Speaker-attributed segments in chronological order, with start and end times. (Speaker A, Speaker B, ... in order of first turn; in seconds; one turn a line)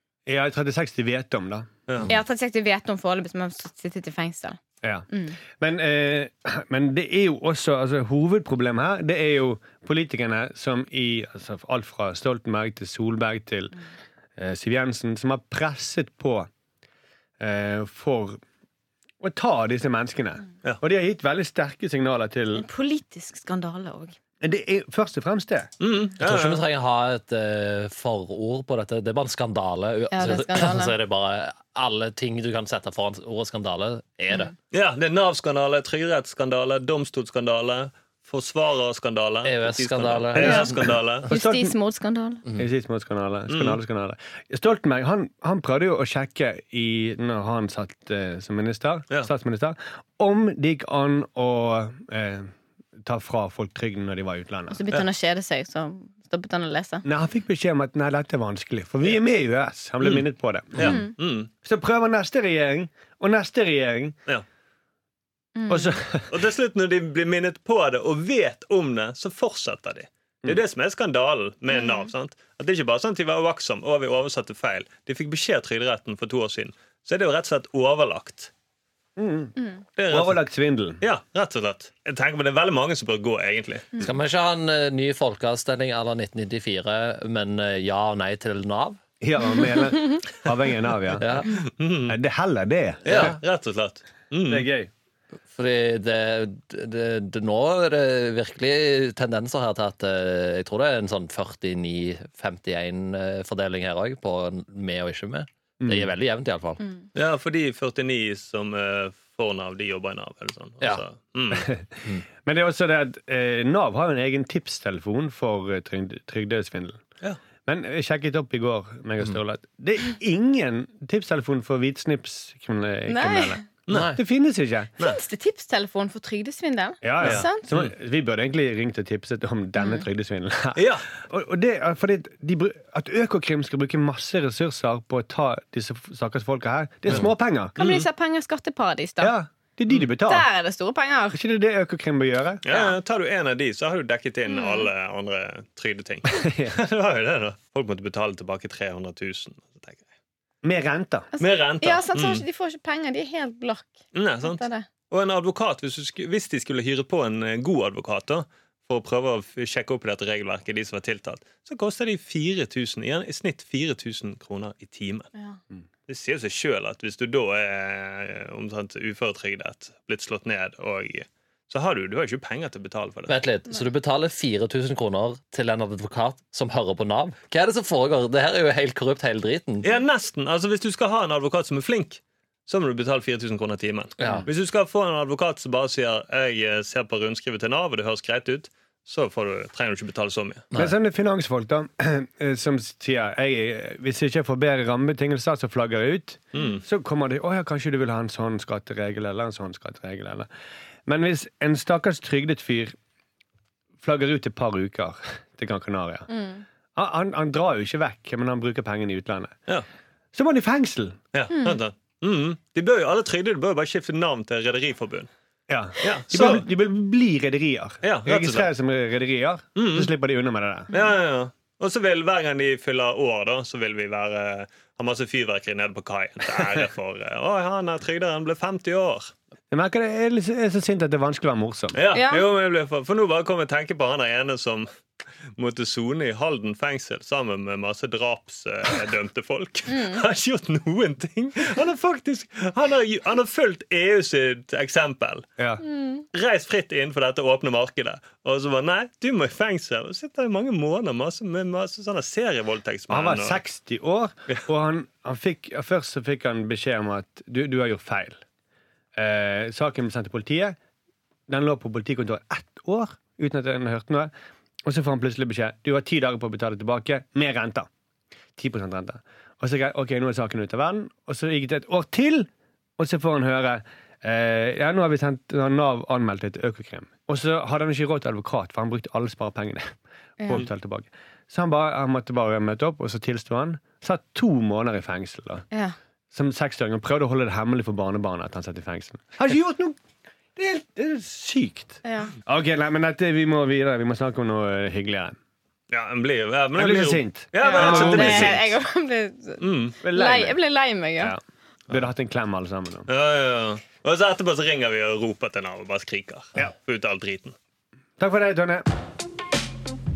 Speaker A: 0.3-1.7
Speaker B: 1.9-2.1
Speaker C: 2.1-4.6
Speaker A: 4.8-13.8
Speaker C: 5.1-5.4
Speaker A: 14.4-16.5
Speaker A: 17.4-18.4
Speaker A: 19.2-22.6
Speaker C: 22.5-24.2
Speaker A: 24.4-25.7
Speaker B: 25.8-26.6
Speaker D: 26.2-34.5
Speaker C: 30.1-30.9
Speaker B: 34.7-41.3
Speaker D: 39.4-40.9
Speaker C: 40.4-40.7
Speaker A: 41.2-41.7
Speaker C: 41.3-42.4
Speaker A: 42.5-52.5
Speaker B: 43.5-43.8
Speaker A: 53.0-54.8
Speaker C: 54.7-57.0
Speaker A: 57.0-61.0
Speaker B: 60.0-61.5
Speaker C: 60.8-61.1
Speaker A: 61.6-64.2
Speaker C: 65.5-65.9
Speaker A: 65.7-66.3
Speaker B: 66.3-78.5
Speaker C: 71.7-72.1
Speaker A: 79.2-79.5
Speaker B: 80.0-80.5
Speaker A: 80.1-81.0
Speaker B: 81.0-84.0
Speaker D: 84.0-89.0
Speaker A: 89.2-91.5
Speaker D: 91.2-91.5
Speaker B: 91.5-92.2
Speaker A: 92.1-93.3
Speaker B: 93.0-94.7
Speaker D: 93.1-93.4
Speaker A: 94.5-94.9
Speaker D: 95.5-106.8
Speaker A: 105.8-106.1
Speaker B: 107.1-111.7
Speaker A: 111.5-117.0
Speaker A: 117.7-124.9
Speaker C: 123.1-123.6
Speaker B: 123.9-124.2
Speaker D: 123.9-124.2
Speaker C: 125.0-127.7
Speaker A: 127.0-137.8
Speaker B: 127.2-127.9
Speaker C: 129.8-130.0
Speaker B: 130.8-131.0
Speaker B: 137.1-138.1
Speaker C: 137.8-139.3
Speaker A: 139.2-140.5
Speaker C: 140.2-141.4
Speaker A: 141.3-142.6
Speaker B: 142.6-150.0
Speaker C: 142.7-142.9
Speaker C: 144.5-144.9
Speaker A: 146.4-146.8
Speaker A: 150.6-151.3
Speaker C: 151.3-154.9
Speaker B: 151.4-152.4
Speaker B: 154.1-165.3
Speaker B: 166.1-173.4
Speaker D: 173.3-179.9
Speaker B: 179.8-190.7
Speaker D: 184.2-184.4
Speaker A: 190.7-200.5
Speaker B: 196.5-196.8
Speaker A: 201.1-202.9
Speaker A: 204.0-206.3
Speaker C: 206.3-206.6
Speaker A: 206.9-209.6
Speaker A: 210.3-211.2
Speaker B: 211.3-215.3
Speaker C: 211.5-211.8
Speaker A: 215.7-220.9
Speaker B: 216.0-216.7
Speaker B: 218.0-218.7
Speaker B: 219.8-220.1
Speaker B: 220.9-229.3
Speaker A: 229.7-232.0
Speaker B: 231.9-234.9
Speaker C: 232.1-232.4
Speaker B: 235.6-245.5
Speaker C: 239.9-240.2
Speaker C: 245.8-246.2
Speaker B: 246.3-253.6
Speaker A: 253.1-258.4
Speaker A: 259.1-260.8
Speaker A: 261.5-264.3
Speaker A: 264.8-267.9
Speaker A: 268.6-285.6
Speaker C: 280.4-280.6
Speaker A: 286.3-290.0
Speaker A: 290.6-295.4
Speaker C: 292.0-292.3
Speaker B: 295.9-298.7
Speaker A: 296.8-298.6
Speaker C: 297.6-301.3
Speaker B: 299.6-300.0
Speaker A: 300.0-300.6
Speaker A: 301.2-303.1
Speaker B: 303.1-307.5
Speaker A: 308.2-308.8